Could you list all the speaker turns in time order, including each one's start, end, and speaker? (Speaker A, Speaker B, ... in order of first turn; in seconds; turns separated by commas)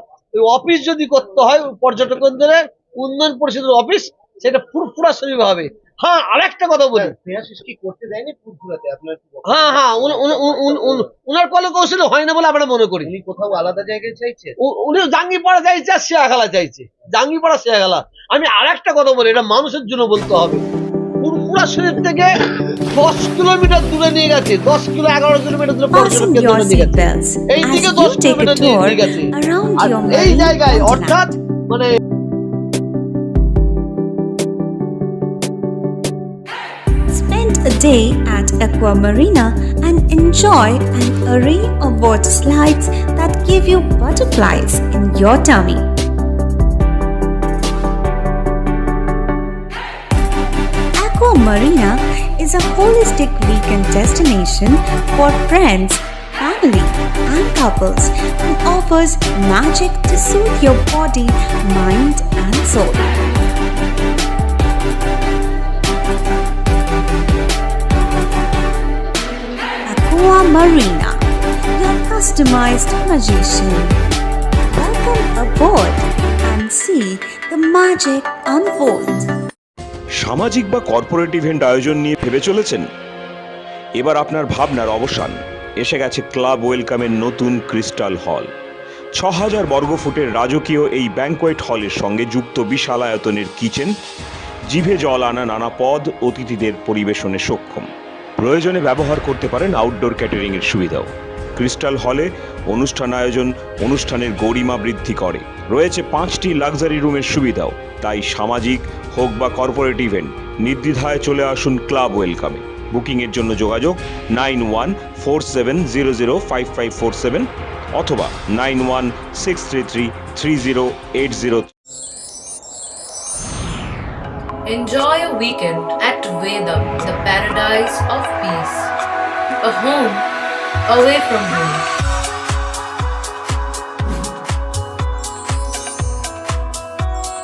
Speaker A: 0.4-7.1, Speaker B: 6.9-11.1, Speaker A: 9.4-13.1, Speaker B: 13.0-14.5, Speaker A: 14.6-20.6, Speaker A: 21.2-22.3, Speaker A: 22.9-31.9, Speaker C: 25.9-31.4, Speaker C: 37.1-45.8, Speaker C: 51.0-63.1, Speaker C: 69.9-71.2, Speaker C: 71.7-74.0, Speaker C: 74.7-79.3, Speaker D: 80.2-82.8, Speaker D: 84.0-88.5, Speaker D: 89.2-93.9, Speaker D: 94.7-97.9, Speaker D: 98.4-121.7, Speaker E: 124.6-128.9, Speaker E: 129.6-130.3, Speaker E: 130.8-131.9